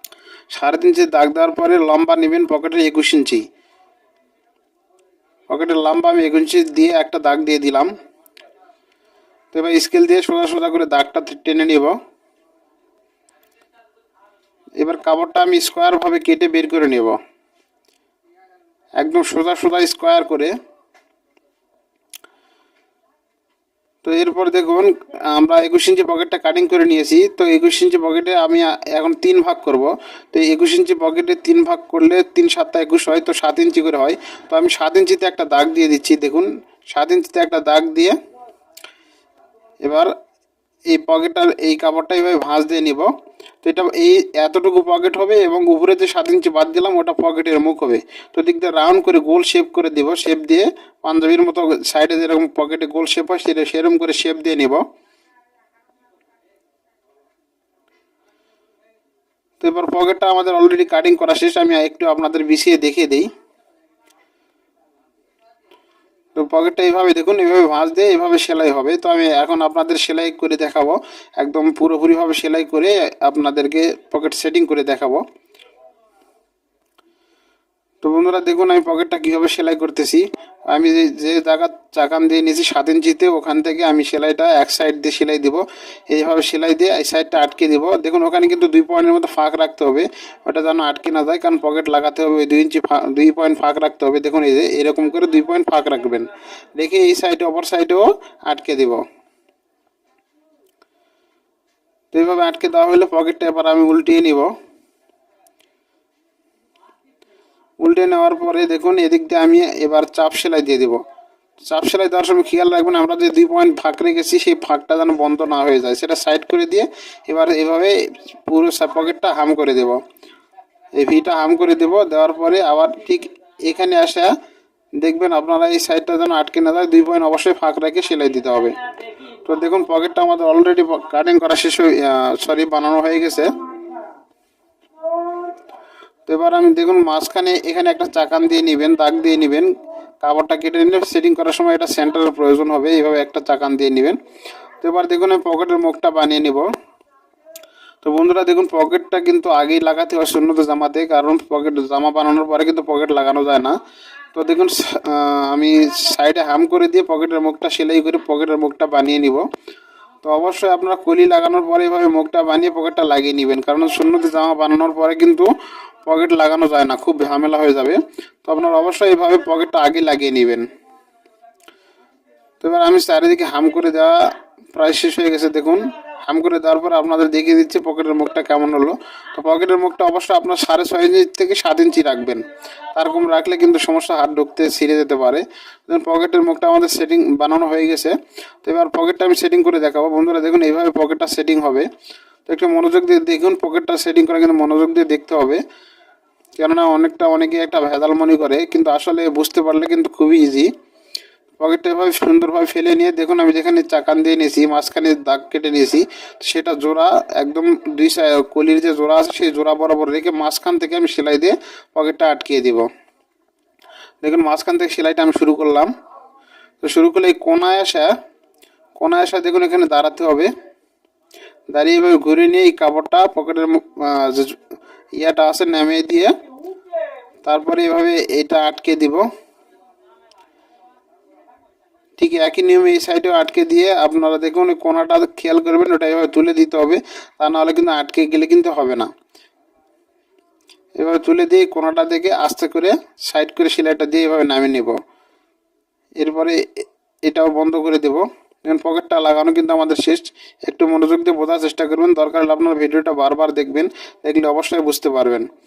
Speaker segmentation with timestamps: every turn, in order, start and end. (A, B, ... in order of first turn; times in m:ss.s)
0:00.5-0:03.4 A
0:05.5-0:07.9 A
0:09.5-0:12.0 A
0:14.8-0:17.2 A
0:19.0-0:20.5 A
0:24.0-0:38.2 A
0:39.8-0:40.1 A
0:40.9-0:43.1 A
0:43.6-0:54.8 A
0:59.6-1:03.3 A
1:06.4-1:15.2 A
1:18.0-1:39.0 A
1:42.1-1:44.5 A
1:47.8-1:51.0 A
1:51.7-2:00.0 A
2:01.0-2:04.3 A
2:05.0-2:08.8 A
2:09.4-2:13.6 A
2:16.3-2:19.7 A
2:20.2-2:24.2 A
2:24.8-2:26.7 A
2:28.0-2:33.8 A
2:34.3-2:39.5 A
2:40.2-2:45.5 A
2:46.0-2:50.7 A
2:52.6-2:54.2 A
2:54.7-3:02.4 A
3:02.9-3:11.9 A
3:12.5-3:15.6 A
3:16.6-3:20.7 A
3:21.6-3:32.9 A
3:34.2-3:35.9 A
3:36.8-3:38.1 A
3:39.0-3:40.5 A
3:41.7-3:44.6 A
3:45.2-3:46.3 A
3:47.4-3:49.3 A
3:52.2-3:59.1 A
4:01.0-4:05.0 A
4:06.2-4:06.6 A
4:07.2-4:15.5 A